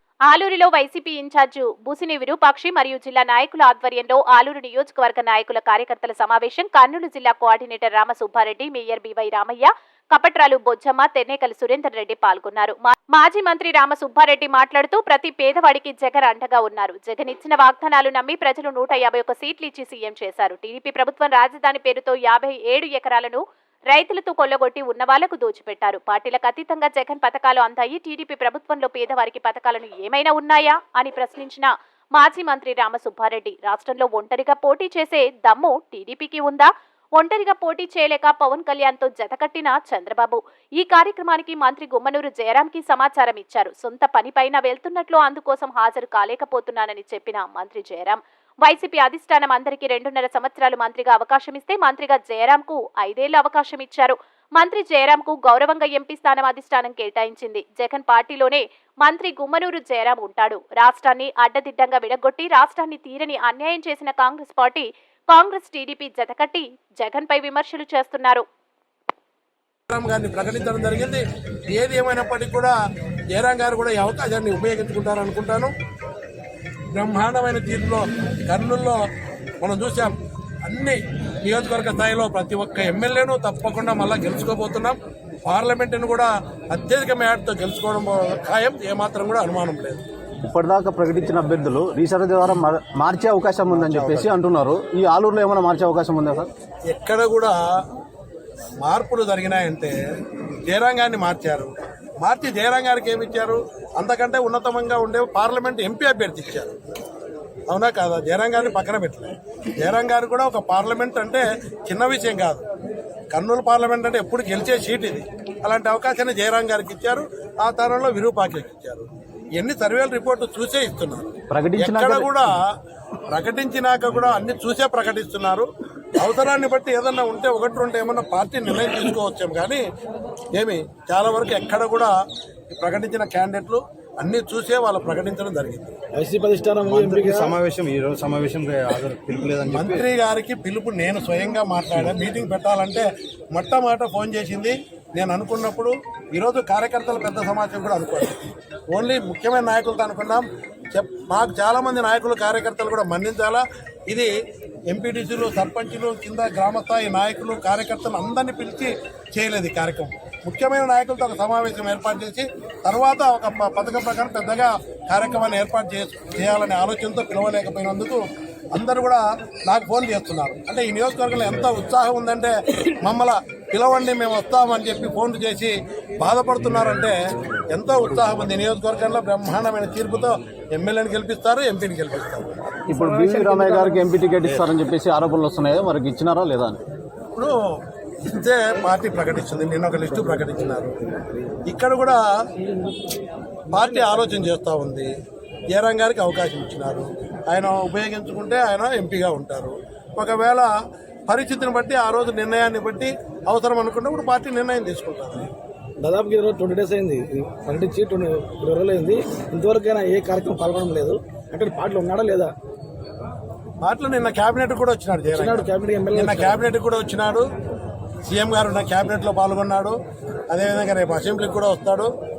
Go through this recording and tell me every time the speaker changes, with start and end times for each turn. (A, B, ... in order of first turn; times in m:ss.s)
0:00.3-1:08.4 A
1:09.9-1:12.7 B
1:13.3-1:15.7 B
1:16.9-1:19.0 B
1:19.6-1:30.0 B
1:30.4-1:36.5 C
1:33.7-1:34.3 B
1:36.9-1:37.5 B
1:38.8-1:39.9 B
1:40.7-1:46.8 B
1:47.7-1:52.6 B
1:53.3-2:02.5 B
2:01.5-2:02.5 C
2:03.3-2:09.8 B
2:10.6-2:12.1 B
2:12.7-2:15.9 B
2:16.2-2:17.6 D
2:16.9-2:20.1 C
2:19.7-2:34.3 B
2:34.9-2:57.2 B
2:57.7-3:02.5 B
3:02.9-3:04.1 D
3:02.9-3:06.8 C
3:08.2-3:11.0 B
3:10.1-3:11.4 D
3:11.7-3:12.2 B
3:13.7-3:14.4 D
3:13.7-3:15.1 B
3:15.7-3:20.7 B
3:21.3-3:25.5 B
3:26.0-3:32.5 D
3:33.8-3:37.5 B
3:35.3-3:36.7 D
3:38.3-3:40.0 B
3:40.5-3:42.1 B